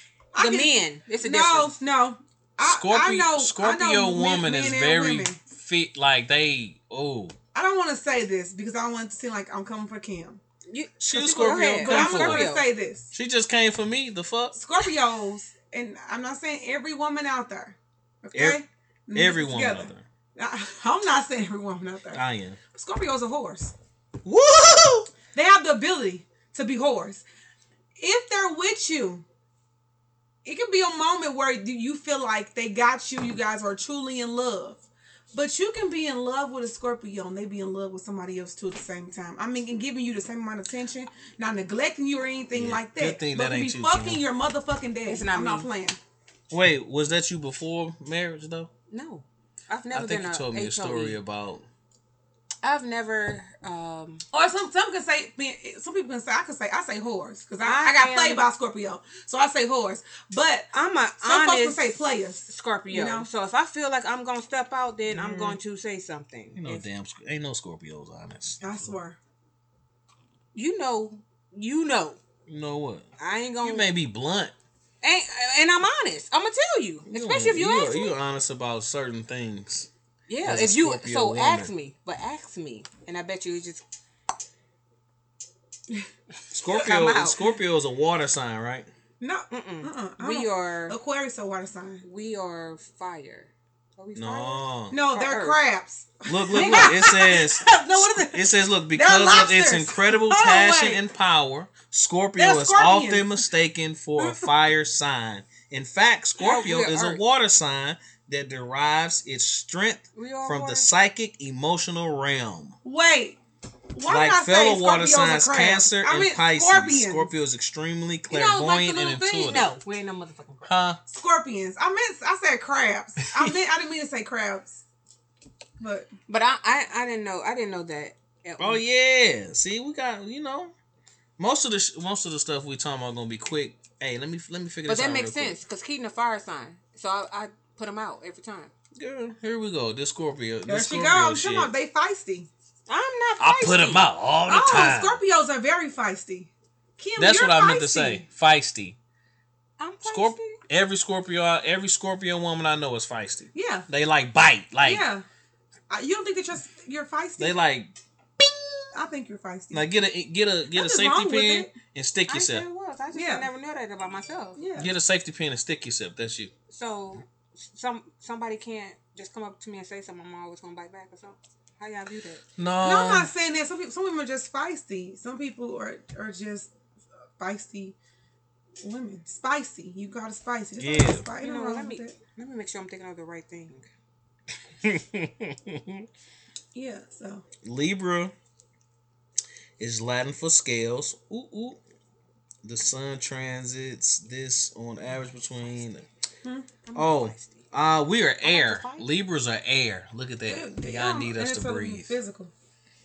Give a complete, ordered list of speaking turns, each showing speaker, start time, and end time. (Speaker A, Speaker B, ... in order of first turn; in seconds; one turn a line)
Speaker A: 0.3-5.4
Speaker B: 0.4-1.7
Speaker C: 2.6-7.3
Speaker A: 7.5-10.4
Speaker B: 10.7-12.7
Speaker C: 11.0-12.5
Speaker A: 11.2-13.1
Speaker C: 13.1-14.6
Speaker A: 14.5-23.7
Speaker C: 18.3-18.6
Speaker C: 19.1-20.0
Speaker C: 22.1-22.6
Speaker C: 24.2-25.1
Speaker A: 25.3-27.2
Speaker A: 28.0-29.2
Speaker A: 30.4-46.0
Speaker C: 42.5-44.2
Speaker B: 45.1-45.7
Speaker C: 46.5-48.7
Speaker B: 48.9-51.2
Speaker C: 49.9-51.6
Speaker B: 52.6-54.2
Speaker A: 54.3-60.7
Speaker B: 57.6-58.4
Speaker B: 60.7-61.8
Speaker A: 61.2-63.3
Speaker B: 62.5-66.8
Speaker A: 65.1-65.6
Speaker C: 66.6-69.0
Speaker A: 68.6-69.2
Speaker B: 70.5-72.2
Speaker C: 72.5-73.1
Speaker B: 73.2-73.9
Speaker C: 73.6-74.5
Speaker B: 75.0-78.2
Speaker C: 77.1-79.9
Speaker B: 80.3-83.8
Speaker C: 80.4-81.7
Speaker C: 86.5-88.9
Speaker B: 86.7-87.5
Speaker A: 89.2-92.0
Speaker B: 89.5-91.0
Speaker B: 92.0-95.6
Speaker C: 94.2-95.0
Speaker A: 94.9-101.0
Speaker C: 96.3-112.7
Speaker B: 96.5-97.1
Speaker A: 102.4-103.4
Speaker A: 104.2-104.5
Speaker B: 106.4-107.2
Speaker B: 110.2-110.9
Speaker A: 112.8-113.4
Speaker A: 113.9-117.3
Speaker C: 114.1-119.7
Speaker A: 118.3-119.6
Speaker B: 119.4-120.7
Speaker C: 120.7-121.0
Speaker A: 121.1-124.8
Speaker A: 125.8-126.1
Speaker B: 126.3-128.8
Speaker C: 128.6-130.7
Speaker C: 131.4-135.6
Speaker B: 134.8-138.7
Speaker C: 138.9-141.7
Speaker A: 140.7-142.5
Speaker B: 142.9-144.0
Speaker C: 143.4-145.2
Speaker A: 144.5-148.2
Speaker C: 147.2-149.0
Speaker B: 149.8-150.6
Speaker C: 150.0-155.0
Speaker A: 153.5-153.9
Speaker A: 154.8-155.2
Speaker A: 155.9-157.6
Speaker C: 157.4-158.4
Speaker A: 158.9-159.9
Speaker C: 159.7-162.7
Speaker A: 160.7-161.7
Speaker B: 162.3-164.6
Speaker A: 163.1-163.5
Speaker A: 164.6-164.9
Speaker C: 164.8-166.5
Speaker B: 166.7-172.4
Speaker C: 172.6-173.3
Speaker A: 172.8-176.7
Speaker A: 177.4-178.0
Speaker A: 178.8-182.2
Speaker C: 180.8-181.3
Speaker B: 181.4-183.8
Speaker C: 184.8-186.1
Speaker A: 186.7-187.4
Speaker C: 187.6-188.3
Speaker C: 189.8-191.8
Speaker C: 192.6-196.0
Speaker A: 196.4-196.8
Speaker B: 196.8-197.7
Speaker C: 196.9-202.1
Speaker B: 198.4-199.1
Speaker A: 200.4-202.5